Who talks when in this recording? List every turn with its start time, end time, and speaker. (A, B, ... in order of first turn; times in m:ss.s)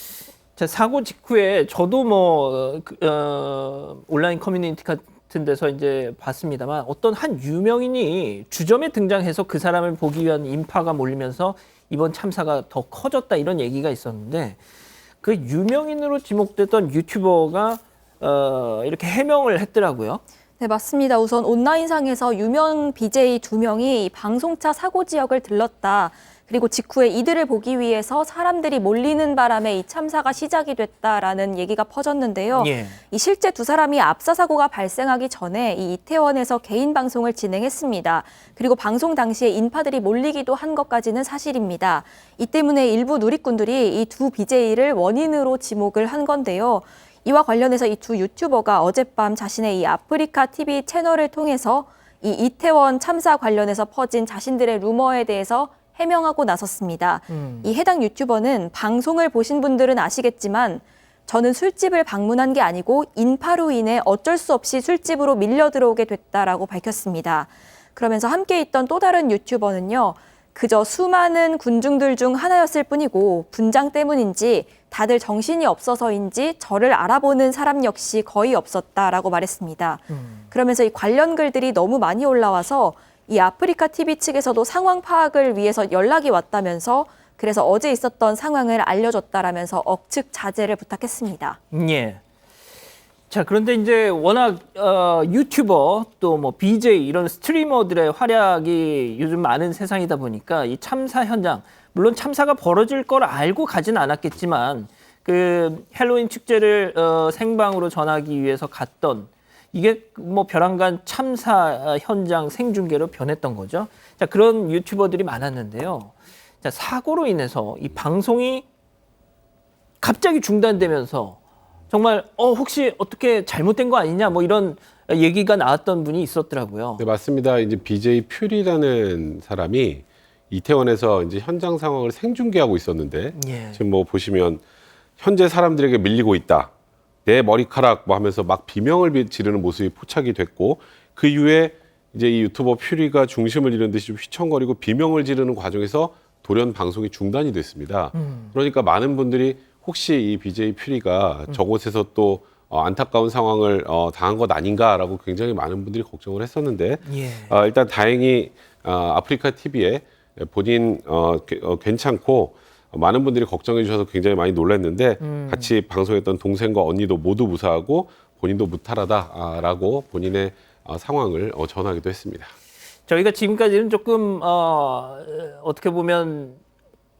0:00.6-0:14.6 A
0:15.2-0:20.2 A
0:20.6-1:31.6 B
0:32.5-0:33.0 A
0:57.3-0:57.7 A
1:20.1-1:20.4 A
1:31.7-1:32.2 A
1:33.3-1:58.6 A
2:00.0-2:01.4 A
2:01.9-2:07.0 A
2:07.0-2:14.6 C
2:13.3-2:13.8 A
2:15.2-2:16.7 C
2:17.2-2:52.5 C
2:28.1-2:28.5 A
2:37.0-2:37.6 A
2:45.2-2:45.7 A
2:53.1-2:56.6 A